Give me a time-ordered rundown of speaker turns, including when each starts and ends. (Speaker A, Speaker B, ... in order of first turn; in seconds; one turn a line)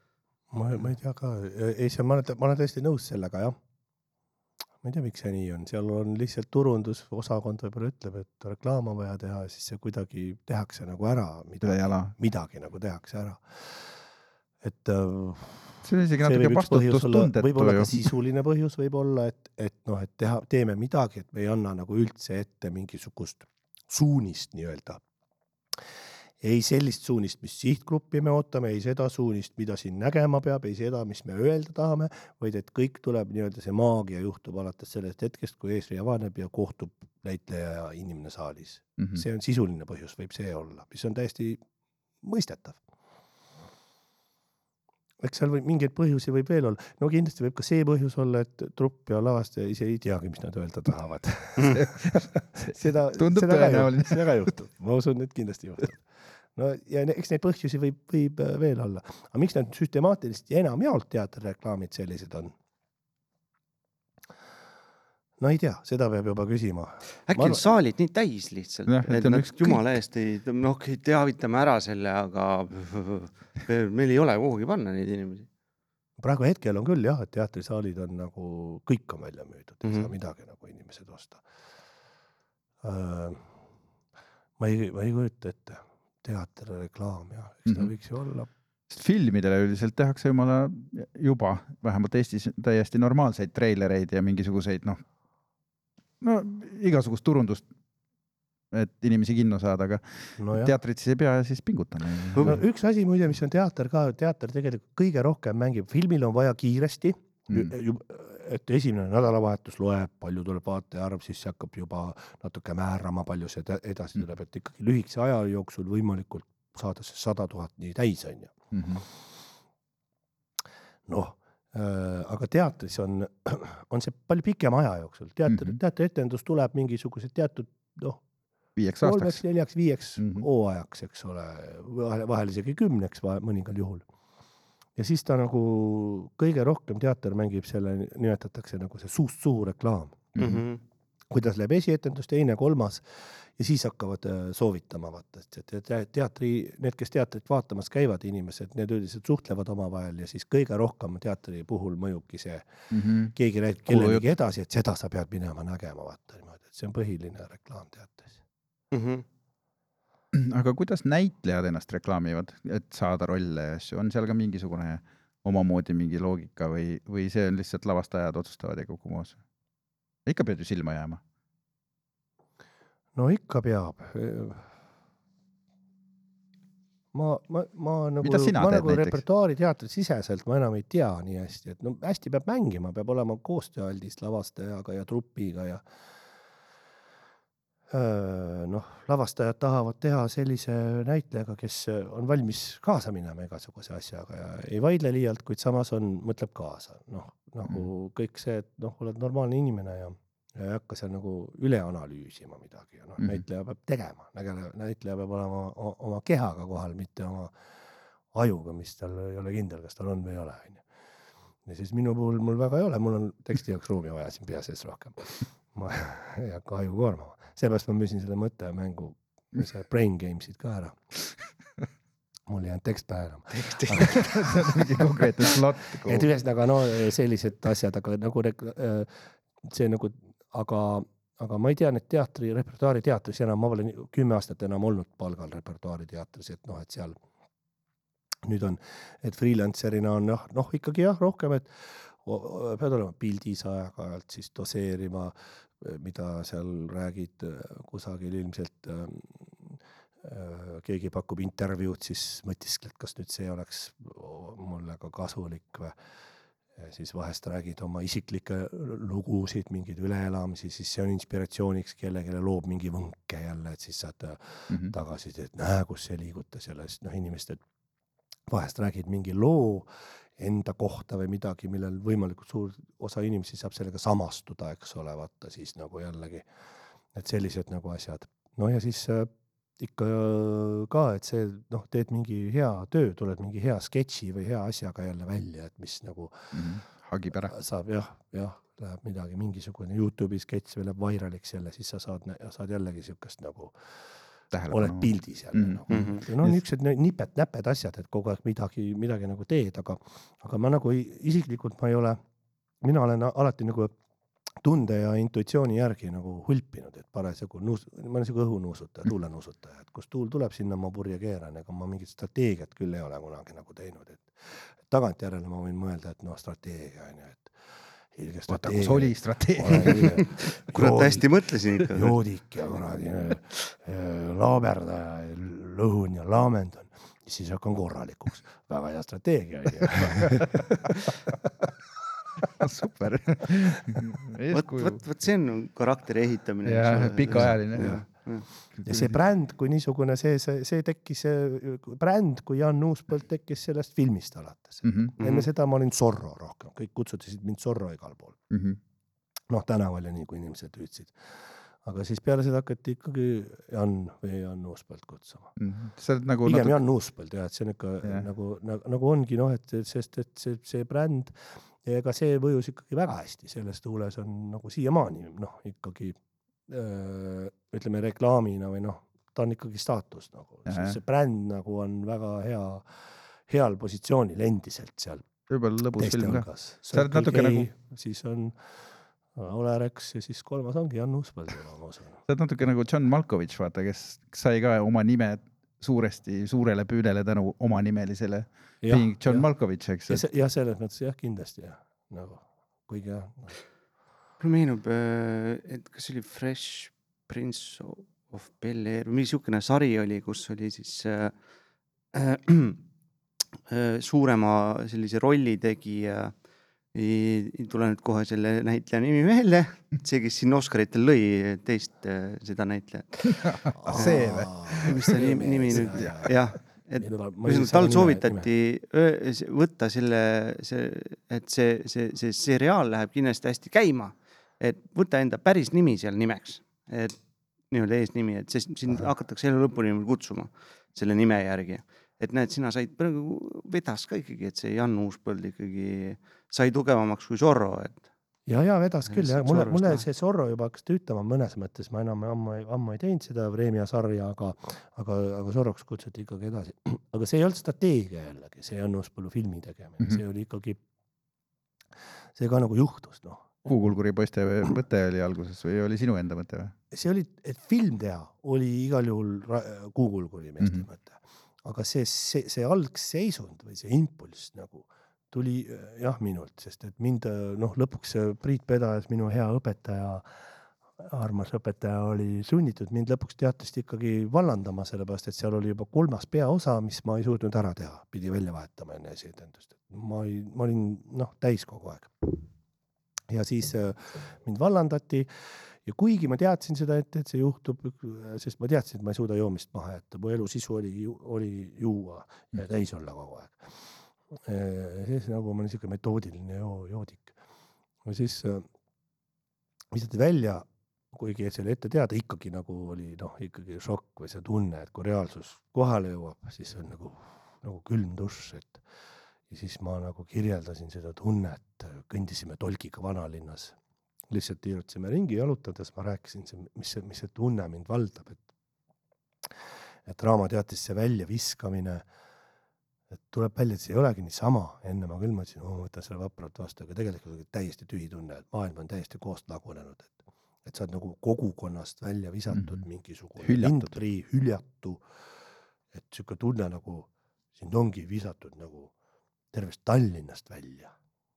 Speaker A: 0.5-3.6
Speaker A: 4.8-14.0
Speaker B: 11.6-12.1
Speaker A: 14.6-25.0
Speaker B: 15.8-18.1
Speaker A: 26.4-41.6
Speaker B: 39.0-39.2
Speaker A: 42.2-42.8
Speaker A: 45.2-62.5
Speaker B: 51.6-54.3
Speaker A: 65.4-67.7
Speaker C: 67.3-75.5
Speaker B: 68.9-69.9
Speaker A: 76.2-81.4
Speaker C: 79.8-80.1
Speaker A: 82.8-83.5
Speaker A: 84.6-88.5
Speaker B: 88.9-95.0
Speaker B: 96.2-97.7
Speaker B: 98.7-102.6
Speaker A: 100.4-100.8
Speaker A: 102.4-118.5
Speaker B: 118.7-119.0
Speaker A: 121.1-128.2
Speaker B: 125.5-125.8
Speaker B: 128.8-129.4
Speaker A: 129.0-134.1
Speaker B: 130.2-130.5
Speaker A: 135.0-140.3
Speaker B: 140.3-140.6
Speaker C: 140.4-140.8
Speaker A: 141.3-152.7
Speaker B: 152.9-153.3
Speaker A: 153.3-158.4
Speaker B: 153.9-154.3
Speaker C: 158.9-159.2
Speaker B: 160.3-169.4
Speaker B: 170.3-171.2
Speaker A: 173.2-174.7
Speaker A: 177.1-185.9
Speaker B: 178.2-179.2
Speaker A: 187.9-207.6
Speaker A: 208.3-210.8
Speaker A: 211.7-221.0
Speaker A: 222.5-225.0
Speaker B: 223.9-226.3
Speaker A: 226.0-237.2
Speaker A: 238.4-256.0
Speaker A: 256.8-267.6
Speaker B: 264.7-265.0
Speaker A: 268.5-276.5
Speaker A: 277.1-286.6
Speaker B: 286.5-287.5
Speaker A: 287.4-293.9
Speaker B: 294.5-296.6
Speaker A: 294.7-302.2
Speaker C: 295.9-296.2
Speaker A: 302.8-303.9
Speaker A: 304.6-317.6
Speaker A: 318.1-331.7
Speaker B: 318.5-320.4
Speaker C: 320.7-322.2
Speaker B: 329.8-330.4
Speaker B: 332.4-335.0
Speaker C: 334.5-338.5
Speaker B: 336.6-338.1
Speaker A: 337.3-338.1
Speaker B: 338.8-339.2
Speaker A: 338.9-348.4
Speaker B: 344.8-345.1
Speaker C: 345.2-345.5
Speaker B: 348.5-348.8
Speaker A: 349.5-355.5
Speaker B: 355.6-356.8
Speaker A: 356.4-375.3
Speaker B: 370.7-371.0
Speaker B: 375.5-377.7
Speaker A: 376.0-378.8
Speaker A: 379.4-382.2
Speaker B: 382.3-390.2
Speaker A: 388.8-389.5
Speaker A: 390.1-393.6
Speaker C: 394.4-401.3
Speaker C: 402.1-402.8
Speaker C: 403.7-406.3
Speaker C: 406.9-427.2
Speaker B: 413.5-415.1
Speaker A: 413.8-416.4
Speaker B: 415.8-416.3
Speaker A: 417.0-418.5
Speaker C: 427.7-438.0
Speaker A: 438.5-450.8
Speaker C: 439.1-440.1
Speaker A: 452.4-453.7
Speaker B: 453.7-456.7
Speaker A: 456.9-482.4
Speaker B: 460.6-460.9
Speaker A: 483.3-497.4
Speaker A: 498.0-498.7
Speaker A: 499.9-508.8
Speaker A: 509.5-513.8
Speaker A: 514.3-518.4
Speaker A: 520.1-522.1
Speaker A: 523.3-535.0
Speaker B: 532.5-532.8
Speaker B: 533.4-533.9
Speaker A: 535.9-538.9
Speaker A: 539.5-540.9